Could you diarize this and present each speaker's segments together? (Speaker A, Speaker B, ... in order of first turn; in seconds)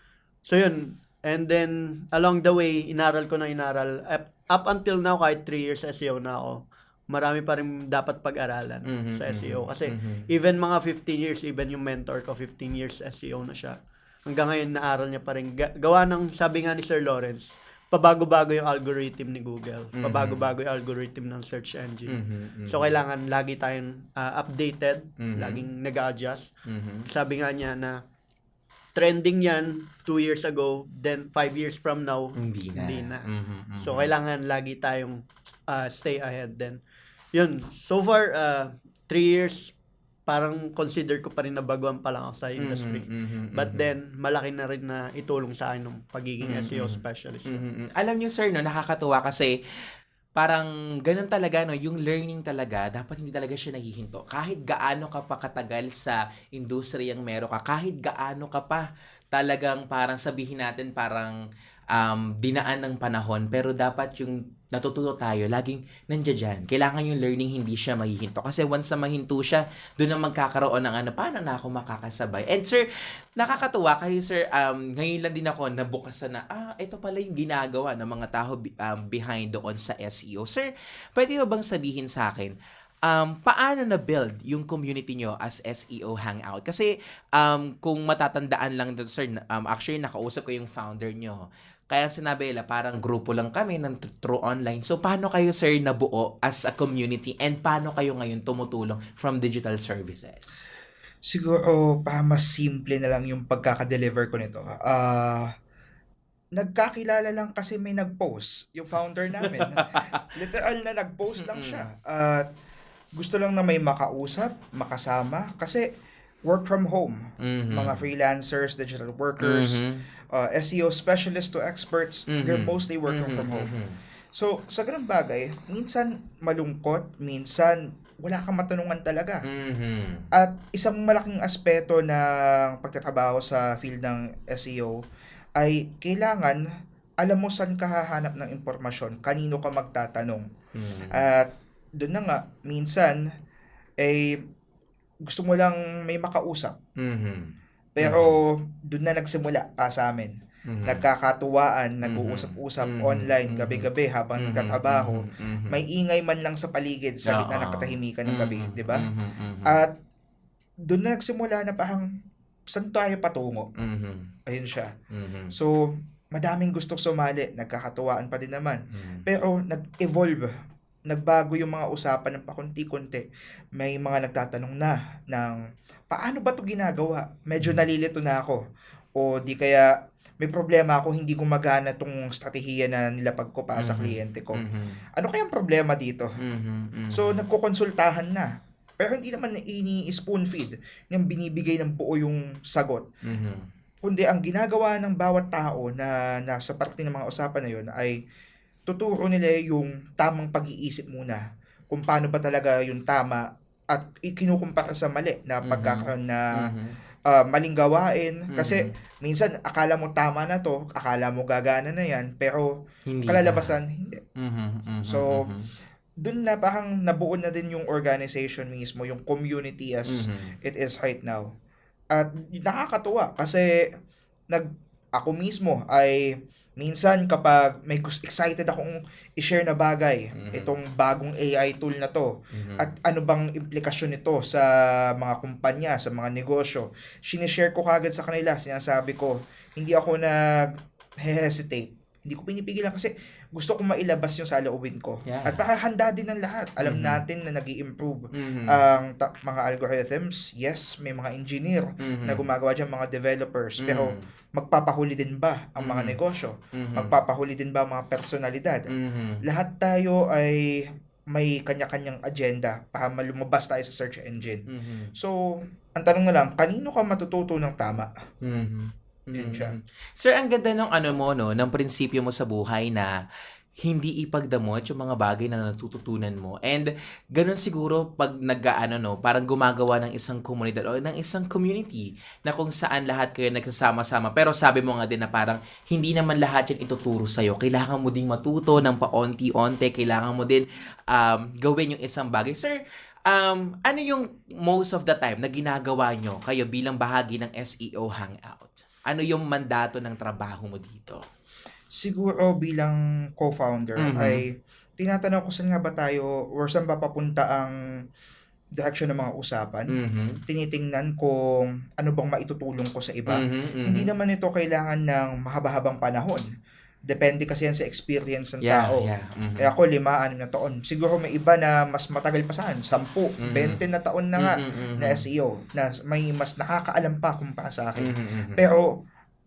Speaker A: 0.5-22.1, 22.7-26.5, 27.1-28.0, 28.9-33.3, 33.8-36.8, 37.3-39.7, 40.3-47.6
Speaker B: 8.9-10.3, 20.0-20.5, 22.1-23.0, 25.2-25.6, 26.7-27.1, 32.4-34.1, 42.6-43.9, 46.4-49.5, 50.4-61.4, 61.9-72.8, 73.4-82.5, 83.1-100.7, 109.4-110.3, 111.4-111.8, 117.4-118.1, 119.4-120.0, 122.3-124.0, 129.4-130.2, 140.8-141.3, 147.0-148.4, 150.7-151.1, 152.0-155.8, 157.2-159.8, 163.8-164.3, 165.1-165.5, 168.9-169.2, 183.8-185.0, 186.4-187.4, 193.2-193.7, 205.6-207.0, 208.5-208.9, 213.1-213.7, 214.4-215.7, 220.1-220.6, 230.3-230.7, 232.5-232.9, 245.2-245.7, 246.8-247.2, 248.3-248.8, 252.0-252.5, 253.8-254.2, 255.8-256.2, 256.7-257.1, 258.9-259.4, 264.7-265.1, 268.4-273.1, 273.8-301.2, 304.0-304.4, 309.9-310.4, 313.3-314.1, 318.6-319.7, 323.4-323.8, 324.4-325.2, 328.0-328.6
Speaker C: 101.3-105.5, 106.6-112.5, 113.2-115.9, 116.5-123.7, 124.3-129.4, 130.3-134.9, 135.6-136.6, 137.2-140.5, 141.1-143.2, 144.0-144.4, 145.3-146.8, 147.9-159.1, 159.6-160.0, 160.8-162.1, 162.7-163.7, 164.5-164.9, 165.5-170.5, 171.1-175.6, 176.1-178.6, 179.2-184.6, 185.2-186.4, 187.1-193.1, 194.0-198.2, 198.9-206.7, 207.3-212.7, 213.3-214.2, 215.1-215.5, 216.2-221.5, 222.1-223.9, 224.5-258.9, 259.4-268.1, 269.3-269.8, 302.0-304.5, 305.0-307.8, 308.8-310.0, 310.5-316.5, 317.1-319.1, 319.6-328.9